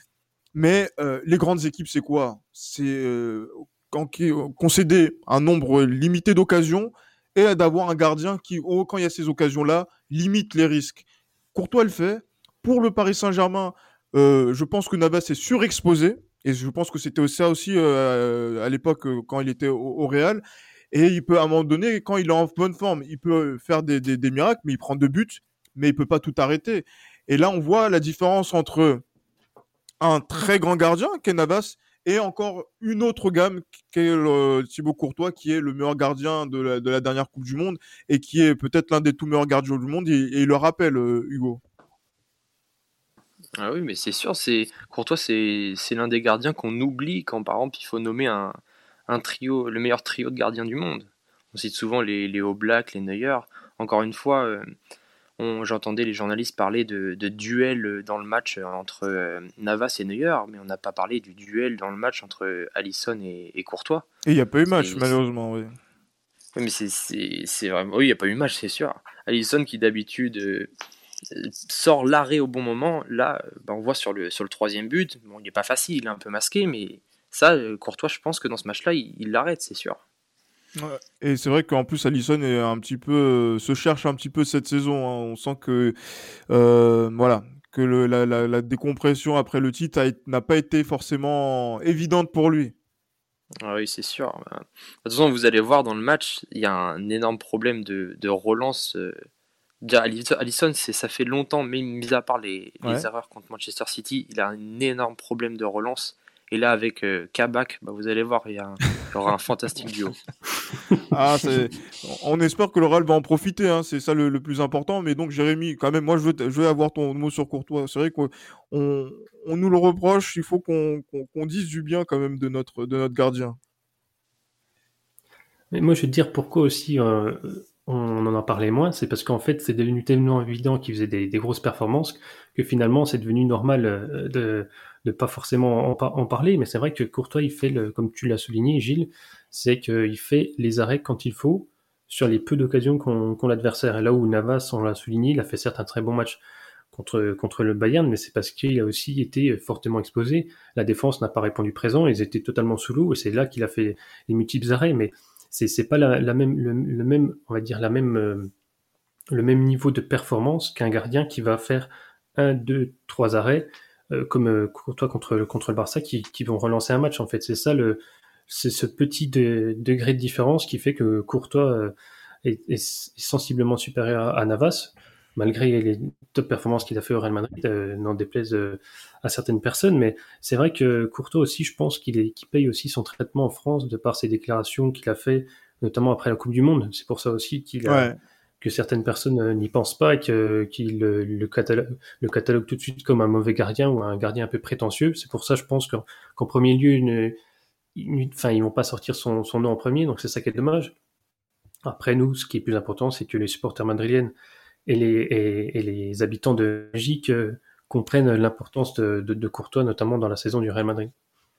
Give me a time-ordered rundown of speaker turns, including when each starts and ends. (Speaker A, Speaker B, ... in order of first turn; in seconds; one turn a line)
Speaker A: 0.5-29.0
Speaker A: 30.0-41.6
Speaker B: 43.6-54.7
Speaker B: 55.4-64.1
Speaker A: 64.3-65.7
Speaker B: 64.8-65.2
Speaker B: 66.5-70.7
Speaker B: 71.3-80.0
Speaker A: 80.8-85.9
Speaker A: 86.5-92.7
Speaker B: 93.6-99.2
Speaker B: 99.8-110.3
Speaker A: 111.1-123.6
Speaker C: 125.7-146.4
Speaker C: 146.9-158.5
Speaker C: 159.3-188.1
Speaker A: 187.9-188.2
Speaker C: 188.6-197.4
Speaker C: 198.0-200.9
Speaker C: 201.8-204.3
Speaker C: 204.9-211.1